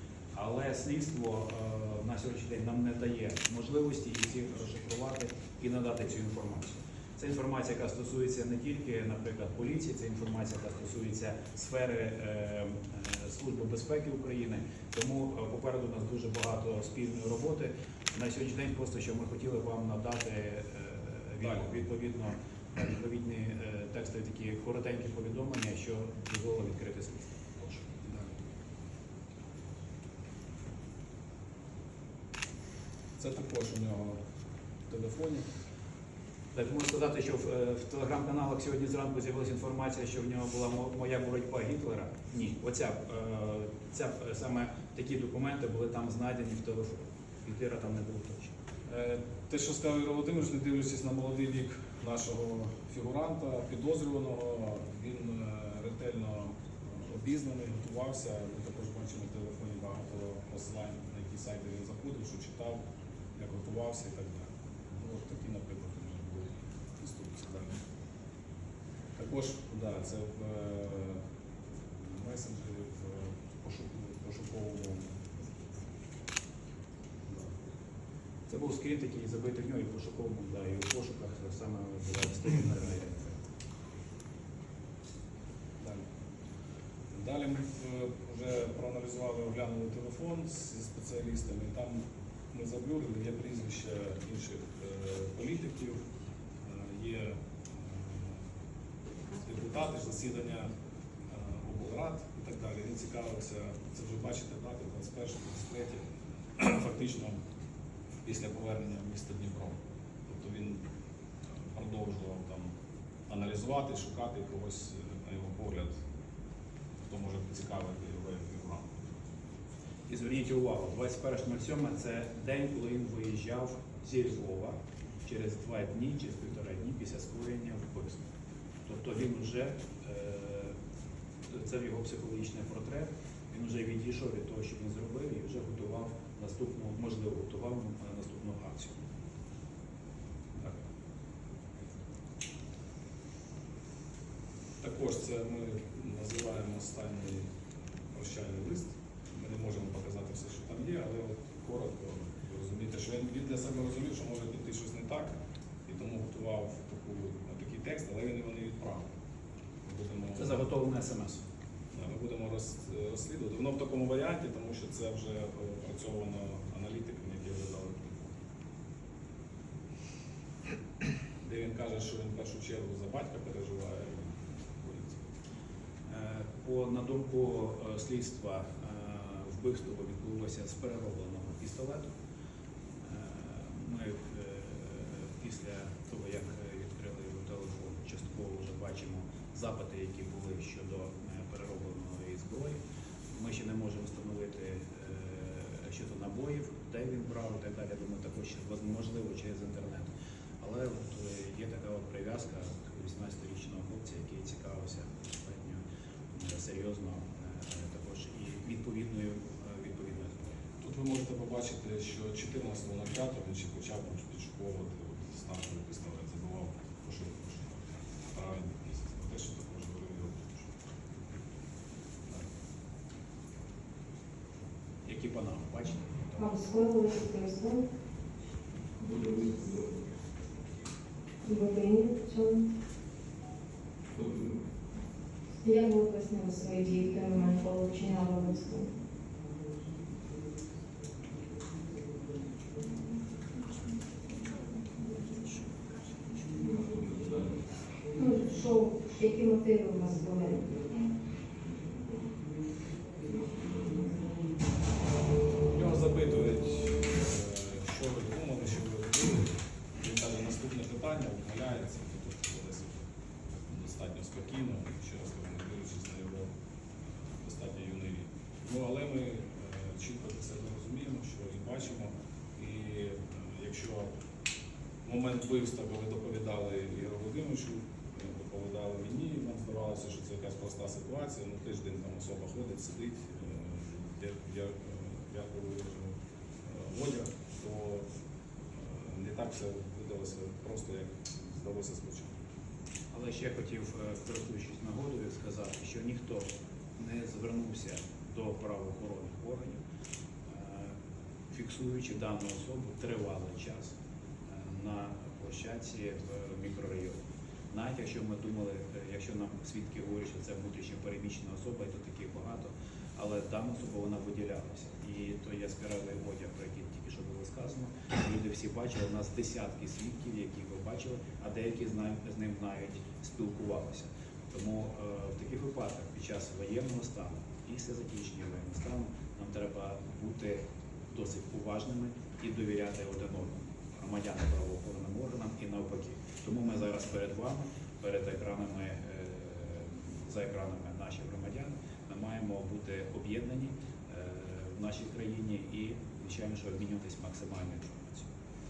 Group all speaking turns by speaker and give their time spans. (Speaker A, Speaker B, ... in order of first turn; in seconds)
Speaker A: 0.3-27.8, 36.5-48.5, 78.5-83.4, 120.1-128.2, 128.9-130.8, 131.5-139.0, 160.3-161.4, 176.1-182.1, 183.0-192.8, 193.3-210.5, 225.1-226.7, 293.1-299.8, 300.5-301.0, 301.5-303.9, 304.5-307.2, 307.7-348.3
Speaker B: 28.0-28.4, 33.2-34.2, 34.9-35.5, 48.9-62.8, 63.4-67.8, 69.2-71.2, 71.9-75.1, 87.1-96.0, 96.6-98.4, 99.3-100.7, 101.3-106.0, 106.6-107.4, 108.2-110.8, 111.7-112.7, 113.3-116.0, 117.0-119.0, 144.8-147.5, 148.1-155.4, 155.9-159.1, 159.8-160.6, 161.9-168.4, 171.4-175.3, 210.8-220.7, 229.3-229.7, 255.7-263.1, 263.7-266.5, 267.4-274.1, 275.1-288.1, 288.8-292.4
Speaker C: 226.4-227.9, 231.4-232.7, 235.6-238.9, 248.2-251.0